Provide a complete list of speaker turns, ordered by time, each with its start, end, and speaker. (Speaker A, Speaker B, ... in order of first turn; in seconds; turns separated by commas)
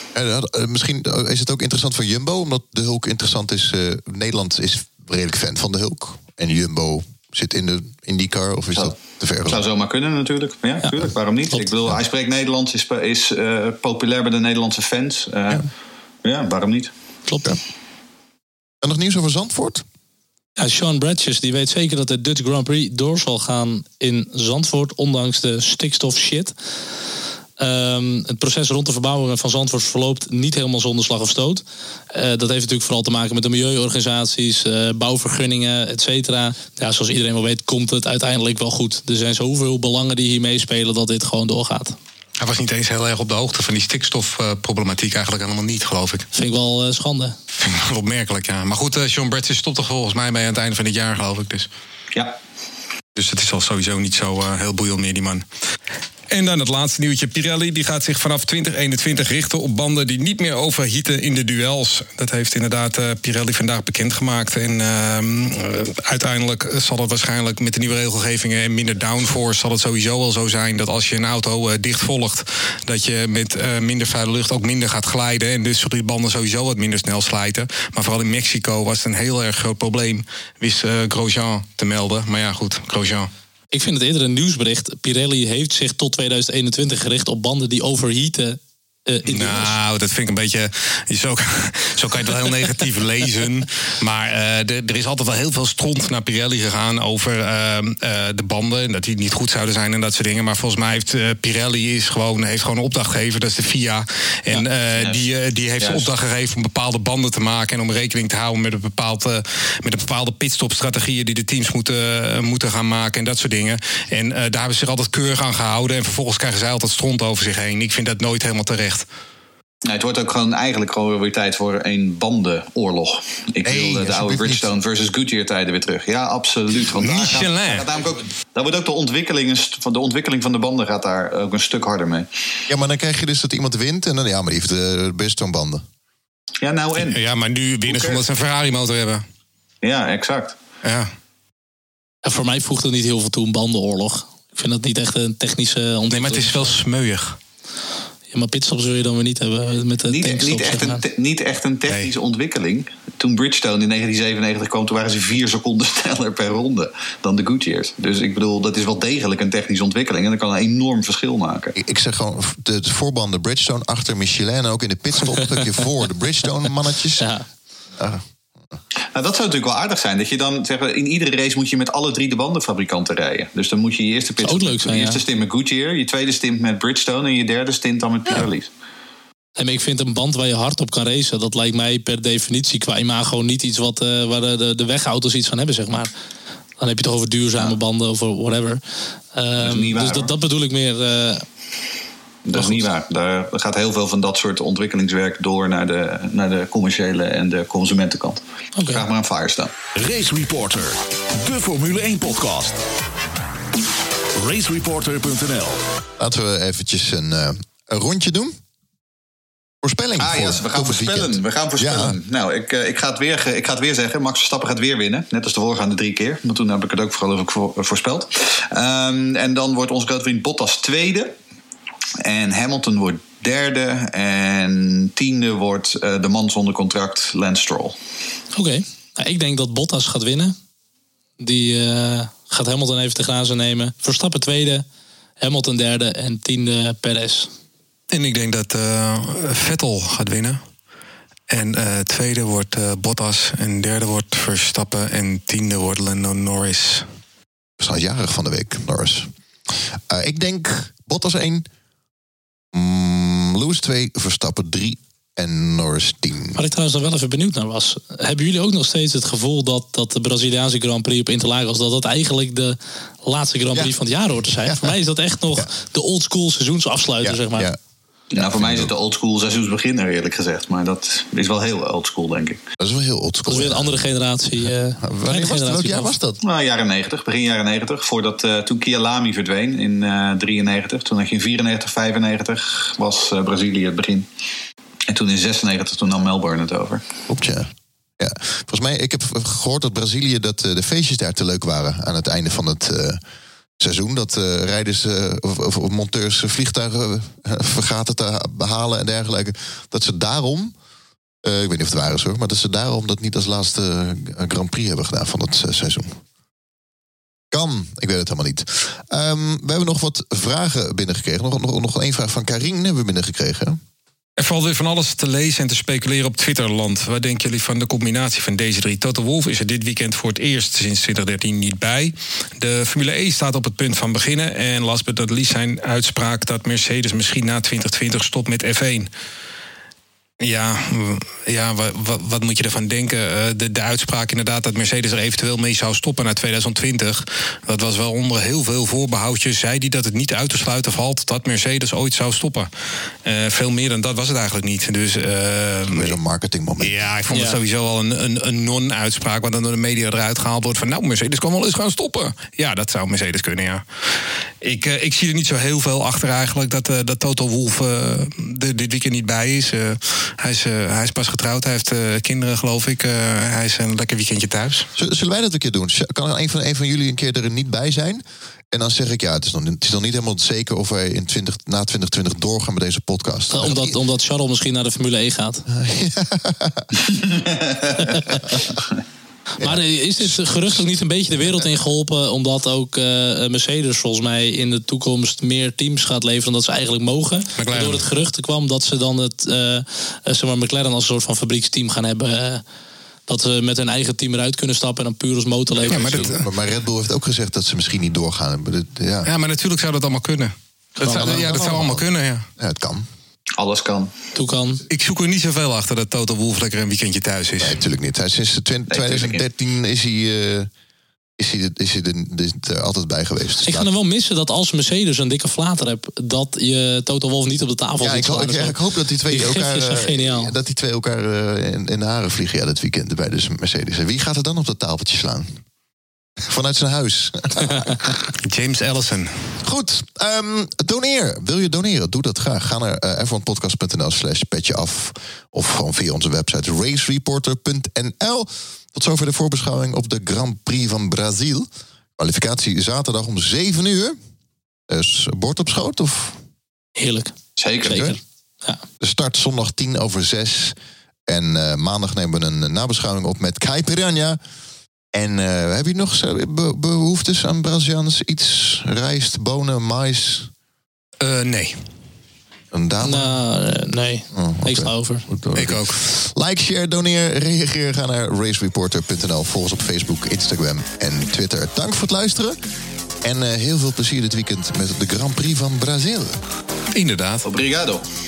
Speaker A: 0.1-9.7, Speaker B: 9.5-15.7, Speaker C: 10.8-11.1, Speaker B: 16.2-16.9, Speaker C: 17.3-17.6, Speaker A: 18.8-19.8, Speaker C: 20.6-26.5, Speaker C: 27.6-42.0, Speaker D: 42.4-46.3, Speaker C: 46.3-47.4, Speaker D: 47.6-51.7, Speaker D: 53.2-55.5, Speaker D: 56.3-83.3, Speaker C: 83.7-89.8, Speaker D: 89.3-119.1, Speaker B: 105.8-106.1, Speaker B: 119.8-132.3, Speaker A: 123.7-124.7, Speaker D: 127.0-127.9, Speaker A: 132.7-135.8, Speaker B: 136.6-137.2, Speaker D: 137.0-139.2, Speaker B: 137.9-138.2, Speaker B: 139.8-140.6, Speaker D: 140.8-141.1, Speaker C: 142.2-146.8, Speaker D: 146.1-147.4, Speaker C: 148.3-151.0, Speaker B: 150.1-161.8, Speaker A: 161.8-167.3, Speaker C: 167.2-167.4, Speaker A: 168.0-168.2, Speaker B: 169.1-178.7, Speaker C: 174.4-175.2, Speaker C: 179.6-186.1, Speaker C: 186.8-188.8, Speaker C: 189.3-191.5, Speaker B: 189.6-190.3, Speaker B: 192.4-199.8, Speaker C: 192.6-192.8, Speaker C: 198.8-199.1, Speaker E: 199.9-202.8, Speaker E: 204.4-205.8, Speaker A: 206.2-208.6, Speaker A: 209.8-212.2, Speaker B: 210.2-221.3, Speaker B: 222.2-227.9, Speaker C: 228.5-230.6, Speaker C: 231.4-234.8, Speaker C: 235.4-237.5, Speaker D: 238.1-240.6, Speaker D: 241.5-247.1, Speaker A: 247.8-249.3, Speaker A: 250.1-251.7, Speaker A: 252.7-256.6, Speaker C: 256.6-267.7, Speaker A: 264.6-264.9, Speaker A: 267.2-267.8, Speaker B: 268.3-272.6, Speaker A: 268.4-268.9, Speaker A: 272.8-274.0, Speaker C: 273.5-276.1, Speaker A: 275.0-276.4, Speaker B: 276.4-284.3, Speaker B: 285.1-287.0, Speaker A: 287.3-293.2, Speaker A: 293.8-300.7, Speaker A: 301.4-306.1, Speaker A: 307.5-313.8, Speaker D: 314.4-329.1, Speaker D: 330.4-342.7, Speaker D: 343.2-346.2, Speaker A: 345.9-347.0, Speaker D: 346.8-353.8, Speaker C: 347.3-347.6, Speaker D: 354.6-364.9, Speaker A: 365.0-374.0, Speaker C: 373.5-375.6, Speaker A: 375.7-377.0, Speaker B: 377.0-378.1, Speaker C: 378.1-378.4, Speaker A: 379.6-380.8, Speaker C: 379.6-392.6, Speaker D: 387.6-388.0, Speaker C: 393.3-396.3, Speaker D: 395.9-396.4, Speaker A: 395.9-399.3, Speaker D: 399.2-402.5, Speaker C: 401.0-401.6, Speaker A: 401.1-403.1, Speaker B: 403.6-404.1, Speaker C: 404.3-404.8, Speaker D: 404.9-407.8, Speaker A: 407.6-410.7, Speaker B: 408.9-409.4, Speaker A: 411.4-413.9, Speaker C: 413.6-418.8, Speaker A: 418.0-425.6, Speaker C: 419.3-420.5, Speaker A: 426.4-428.2, Speaker D: 428.4-429.5, Speaker A: 429.6-441.7, Speaker A: 442.2-444.2, Speaker A: 444.9-446.4, Speaker C: 447.0-448.8, Speaker B: 447.6-448.1, Speaker A: 447.9-448.2, Speaker A: 449.0-450.8, Speaker A: 451.3-454.4, Speaker A: 455.1-460.5, Speaker D: 461.2-461.8, Speaker A: 462.7-463.3, Speaker C: 463.0-465.2, Speaker A: 464.3-472.6, Speaker D: 465.6-466.0, Speaker A: 473.2-476.4, Speaker D: 476.9-477.5, Speaker B: 477.4-478.0